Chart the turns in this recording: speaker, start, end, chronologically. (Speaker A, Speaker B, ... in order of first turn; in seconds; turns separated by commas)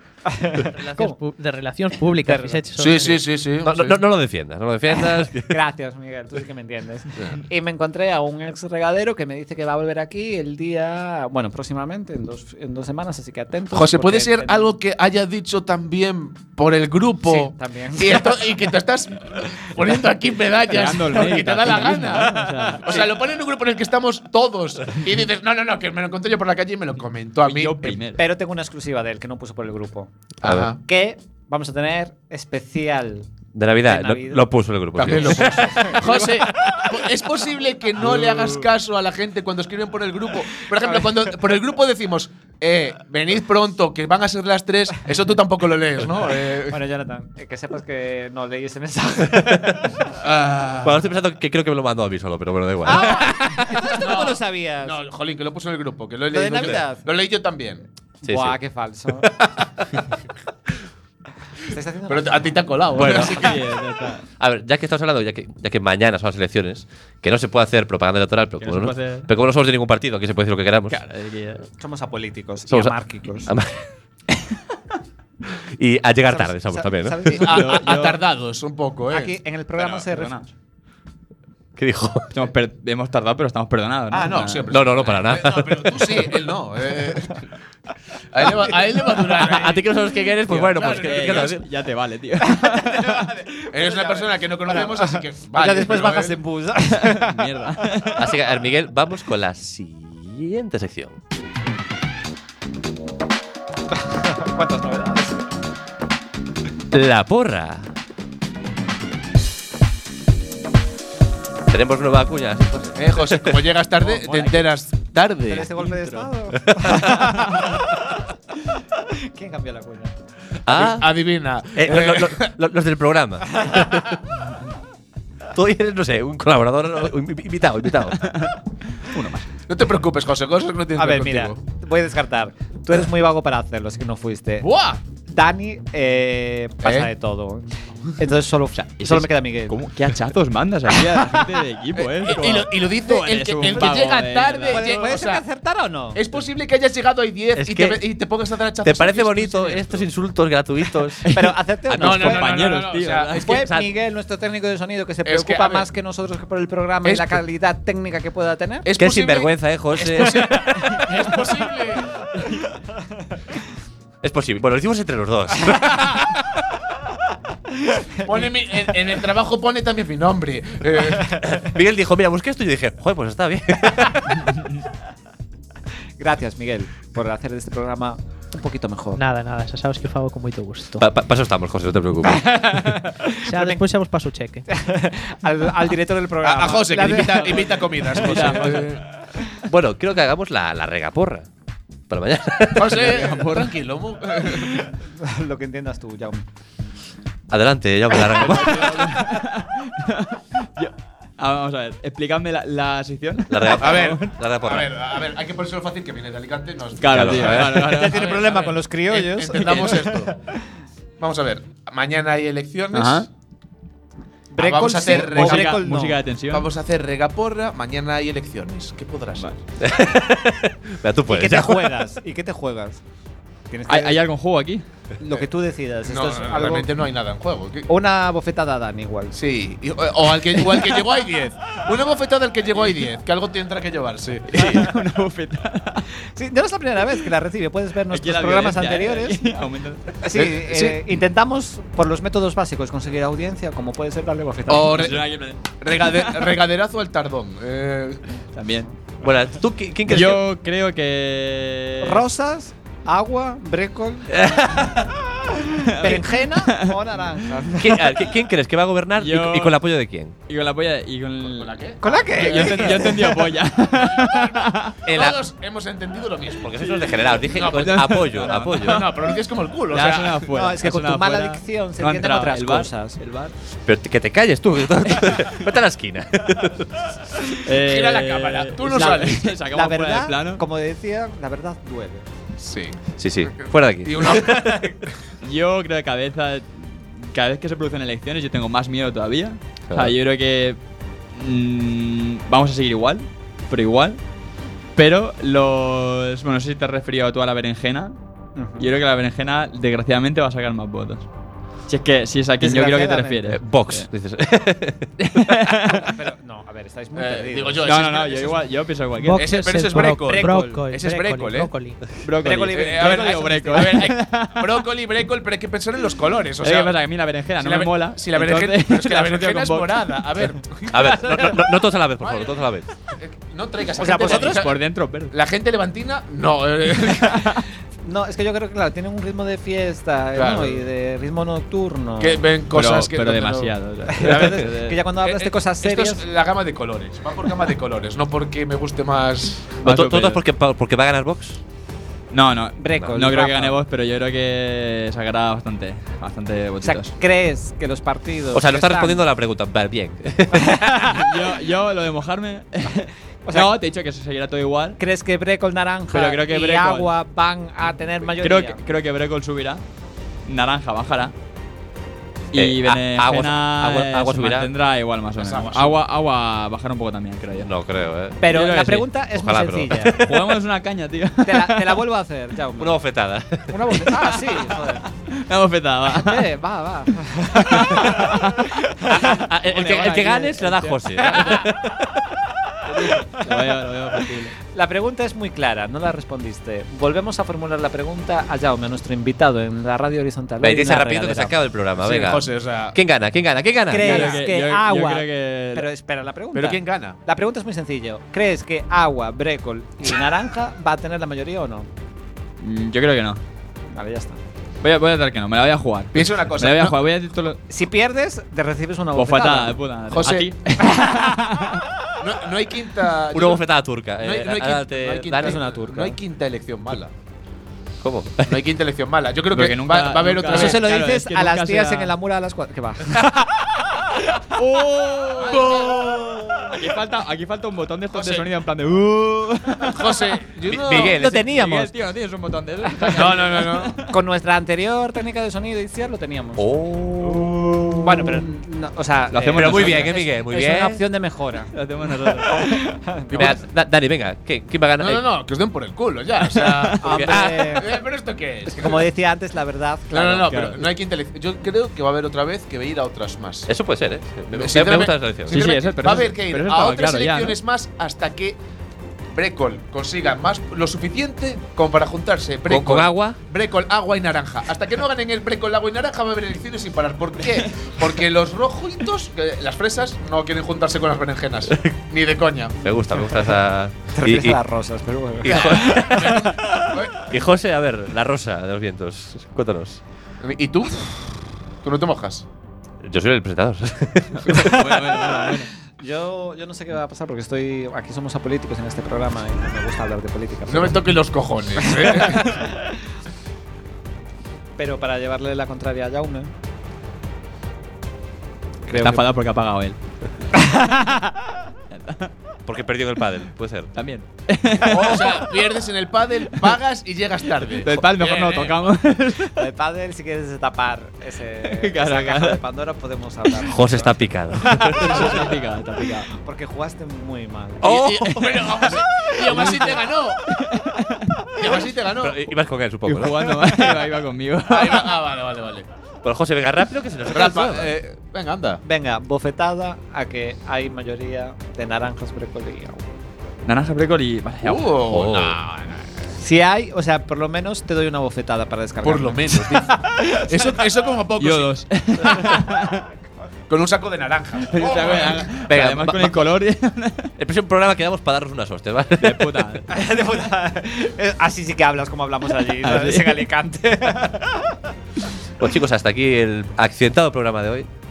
Speaker A: 0.3-1.2, Speaker B: 0.6-3.2, Speaker A: 2.2-3.1, Speaker C: 2.8-4.0, Speaker D: 3.6-5.5, Speaker A: 5.5-14.7, Speaker C: 13.7-28.0, Speaker A: 17.2-18.6, Speaker E: 20.7-22.9, Speaker A: 22.3-23.0, Speaker E: 27.4-28.2, Speaker A: 28.2-30.1, Speaker D: 30.4-30.7, Speaker C: 30.4-30.8, Speaker A: 30.8-33.3, Speaker D: 33.5-35.9, Speaker A: 33.8-34.5, Speaker C: 35.0-46.8, Speaker A: 35.0-36.3, Speaker E: 38.0-38.7, Speaker A: 40.8-41.1, Speaker A: 46.7-50.0, Speaker D: 49.5-49.8, Speaker C: 50.2-51.0, Speaker D: 50.8-53.8, Speaker A: 52.8-55.0, Speaker C: 53.9-57.8, Speaker A: 56.3-57.0, Speaker A: 58.2-59.3, Speaker D: 58.2-58.6, Speaker A: 61.6-62.6, Speaker C: 62.1-63.6, Speaker E: 62.9-64.2, Speaker D: 63.0-63.3, Speaker D: 64.4-71.0, Speaker E: 68.6-69.3, Speaker E: 70.9-71.7, Speaker A: 71.8-73.5, Speaker D: 72.7-73.8, Speaker D: 75.5-77.4, Speaker A: 76.3-77.8, Speaker C: 77.4-79.3, Speaker E: 77.4-78.2, Speaker A: 79.1-80.3, Speaker E: 79.8-80.5, Speaker D: 81.8-82.3, Speaker E: 82.3-84.7, Speaker C: 84.1-87.5, Speaker D: 84.7-86.3, Speaker C: 88.3-89.9, Speaker D: 89.3-91.7, Speaker E: 90.5-93.2, Speaker C: 90.7-91.6, Speaker A: 92.6-97.4, Speaker C: 93.7-96.4, Speaker E: 96.9-98.3, Speaker D: 98.2-101.2, Speaker A: 103.9-105.4, Speaker D: 106.9-107.9, Speaker D: 111.7-113.7, Speaker C: 113.0-115.7, Speaker A: 114.0-114.6, Speaker A: 115.5-118.2, Speaker E: 115.8-116.3, Speaker D: 116.7-117.3, Speaker A: 119.1-120.1, Speaker D: 120.7-121.1, Speaker C: 120.7-122.5, Speaker D: 121.7-124.2, Speaker A: 123.6-123.9, Speaker D: 125.5-128.3, Speaker E: 128.2-129.5, Speaker C: 129.7-131.6, Speaker A: 130.9-134.7, Speaker C: 134.6-135.0, Speaker A: 135.3-139.8, Speaker C: 136.8-137.1, Speaker E: 138.8-145.2, Speaker C: 142.0-145.4, Speaker A: 143.8-144.0, Speaker A: 144.7-146.2, Speaker C: 146.1-150.1, Speaker D: 147.5-148.0, Speaker D: 148.8-151.2, Speaker E: 151.2-153.6, Speaker A: 151.3-152.5, Speaker C: 151.9-153.6, Speaker A: 153.4-158.9, Speaker D: 153.4-153.9, Speaker C: 155.2-155.9, Speaker C: 157.0-157.4, Speaker C: 158.8-162.2, Speaker D: 158.9-161.0, Speaker D: 164.2-166.2, Speaker C: 168.2-171.4, Speaker D: 171.4-174.5, Speaker A: 176.2-179.2, Speaker B: 179.2-181.0, Speaker D: 181.0-182.7, Speaker A: 182.3-183.8, Speaker B: 183.4-184.7, Speaker A: 184.7-188.6, Speaker C: 186.4-189.0, Speaker E: 188.2-188.9, Speaker D: 189.6-191.5, Speaker D: 192.1-193.1, Speaker C: 192.7-194.9, Speaker E: 192.9-193.8, Speaker A: 195.0-196.4, Speaker D: 197.5-199.1, Speaker E: 198.2-204.3, Speaker D: 203.5-204.9, Speaker C: 203.8-210.3, Speaker E: 207.0-208.6, Speaker D: 207.1-207.9, Speaker A: 207.9-210.3, Speaker E: 209.6-210.0, Speaker C: 211.2-213.3, Speaker E: 212.9-213.3, Speaker A: 214.5-216.2, Speaker C: 214.6-215.8, Speaker E: 215.1-216.7, Speaker C: 216.5-219.6, Speaker D: 219.8-222.0, Speaker A: 221.3-223.0, Speaker A: 223.7-224.2, Speaker E: 223.9-224.8, Speaker A: 225.2-226.9, Speaker C: 226.1-227.9, Speaker A: 227.9-229.3, Speaker C: 229.3-234.9, Speaker E: 234.5-236.1, Speaker A: 236.3-239.4, Speaker E: 238.1-240.2, Speaker A: 240.2-245.1, Speaker C: 240.3-241.2, Speaker C: 244.7-248.2, Speaker E: 244.9-246.6, Speaker E: 248.5-248.9, Speaker D: 249.2-250.4, Speaker E: 250.1-252.2, Speaker A: 252.0-254.9, Speaker E: 254.3-255.1, Speaker E: 255.8-256.9, Speaker A: 256.0-258.1, Speaker D: 257.8-260.3, Speaker E: 259.2-259.8, Speaker E: 260.5-264.9, Speaker C: 261.4-263.3, Speaker A: 262.0-263.4, Speaker C: 263.9-270.4, Speaker D: 265.1-265.4, Speaker D: 266.6-269.0, Speaker E: 267.6-273.5, Speaker A: 270.5-273.2, Speaker D: 273.9-277.5, Speaker E: 277.6-280.6, Speaker C: 277.8-279.5, Speaker A: 279.7-282.2, Speaker C: 282.6-284.8, Speaker D: 283.2-284.8, Speaker A: 284.6-284.9, Speaker E: 285.4-290.8, Speaker D: 289.9-290.1, Speaker E: 291.3-294.2, Speaker E: 294.9-298.1, Speaker A: 298.6-298.9, Speaker E: 298.8-301.2, Speaker E: 301.9-304.1, Speaker A: 302.6-303.5, Speaker D: 303.5-305.2, Speaker E: 305.2-306.1, Speaker A: 305.9-307.9, Speaker C: 307.1-308.6, Speaker E: 307.8-309.4, Speaker B: 309.2-312.1, Speaker C: 309.4-311.7, Speaker A: 309.9-311.1, Speaker E: 312.2-314.8, Speaker A: 312.4-314.1, Speaker C: 312.7-316.9, Speaker E: 316.6-320.5, Speaker C: 317.6-321.6, Speaker D: 320.9-322.9, Speaker C: 322.2-327.6, Speaker A: 324.0-324.6, Speaker E: 324.0-325.3, Speaker A: 328.0-332.4, Speaker C: 330.4-330.8, Speaker C: 332.2-339.8, Speaker E: 332.7-335.0, Speaker A: 334.1-336.2, Speaker E: 339.8-340.4, Speaker D: 339.8-341.6, Speaker E: 342.3-347.1, Speaker A: 342.8-343.8, Speaker A: 346.8-349.2, Speaker D: 348.5-351.0, Speaker A: 350.5-351.1, Speaker E: 351.1-355.0, Speaker A: 353.4-353.7, Speaker A: 355.0-358.8, Speaker E: 356.1-357.1, Speaker E: 358.4-359.8, Speaker E: 360.5-361.3, Speaker D: 362.5-364.7, Speaker E: 362.5-367.7, Speaker C: 365.4-365.9, Speaker D: 367.6-368.5, Speaker A: 368.4-370.3, Speaker E: 368.5-369.1, Speaker D: 369.3-370.3, Speaker E: 370.1-372.0, Speaker A: 371.4-373.0, Speaker D: 372.8-374.1, Speaker A: 373.7-375.1, Speaker E: 374.5-376.5, Speaker A: 376.1-378.4, Speaker E: 377.6-381.6, Speaker D: 379.1-382.4, Speaker E: 383.0-384.5, Speaker A: 384.7-391.5, Speaker D: 390.6-394.4, Speaker C: 392.0-393.0, Speaker A: 393.9-401.9, Speaker E: 394.0-395.9, Speaker C: 396.5-397.2, Speaker E: 402.6-403.4, Speaker A: 403.9-404.4, Speaker E: 404.8-407.6, Speaker C: 406.1-407.0, Speaker A: 407.7-409.8, Speaker E: 409.1-411.9, Speaker C: 410.1-410.5, Speaker C: 412.2-413.6, Speaker D: 413.3-415.6, Speaker C: 414.2-417.1, Speaker A: 415.3-416.2, Speaker D: 418.0-418.6, Speaker C: 418.4-420.8, Speaker E: 419.5-422.1, Speaker A: 420.5-423.9, Speaker E: 424.5-425.9, Speaker C: 425.5-426.7, Speaker A: 426.1-426.7, Speaker E: 426.8-430.4, Speaker C: 428.1-428.4, Speaker C: 429.8-431.2, Speaker D: 430.7-431.2, Speaker A: 430.9-431.9, Speaker E: 430.9-434.1, Speaker C: 433.0-434.0, Speaker A: 434.1-436.6, Speaker D: 436.6-437.9, Speaker A: 438.0-443.6, Speaker E: 439.3-440.1, Speaker D: 439.5-441.0, Speaker E: 441.7-442.9, Speaker D: 443.3-445.2, Speaker C: 445.0-449.1, Speaker E: 446.4-447.1, Speaker A: 447.0-448.0, Speaker D: 447.1-447.7, Speaker A: 448.7-450.6, Speaker C: 450.1-453.7, Speaker E: 450.5-450.8, Speaker D: 453.7-455.7, Speaker C: 454.5-458.6, Speaker E: 455.5-457.6, Speaker C: 459.3-472.9, Speaker D: 462.7-463.4, Speaker D: 471.7-471.9, Speaker D: 472.8-474.6, Speaker A: 474.1-475.8, Speaker D: 475.4-480.0, Speaker C: 475.4-477.2, Speaker C: 480.4-481.2, Speaker C: 481.8-482.4, Speaker D: 483.0-484.8, Speaker E: 484.3-485.7, Speaker A: 486.0-491.1, Speaker C: 490.7-492.7, Speaker A: 491.8-492.8, Speaker A: 494.8-496.5, Speaker A: 498.9-499.2, Speaker E: 498.9-500.0, Speaker A: 500.5-501.2, Speaker E: 501.9-502.3, Speaker D: 502.6-503.9, Speaker E: 503.9-505.8, Speaker C: 504.8-508.9, Speaker E: 506.5-506.8, Speaker E: 507.7-509.6, Speaker A: 509.6-514.2, Speaker E: 511.6-512.6, Speaker D: 513.6-515.4, Speaker E: 514.9-516.3, Speaker C: 515.1-515.5, Speaker A: 516.3-517.9, Speaker D: 517.8-518.9, Speaker C: 517.8-520.4, Speaker E: 519.5-521.5, Speaker C: 521.5-522.4, Speaker D: 522.2-523.5, Speaker E: 523.0-525.2, Speaker C: 524.7-525.9, Speaker D: 526.2-528.0, Speaker C: 527.3-528.8, Speaker A: 528.8-533.0, Speaker E: 533.6-534.9, Speaker C: 534.6-536.1, Speaker D: 535.1-535.6, Speaker A: 536.4-539.6, Speaker C: 539.0-542.5, Speaker E: 541.4-543.0, Speaker C: 543.7-545.5, Speaker E: 544.7-547.3, Speaker D: 545.7-546.5, Speaker D: 547.4-549.8, Speaker E: 549.2-549.9, Speaker A: 549.9-554.7, Speaker E: 552.8-553.5, Speaker D: 555.6-557.9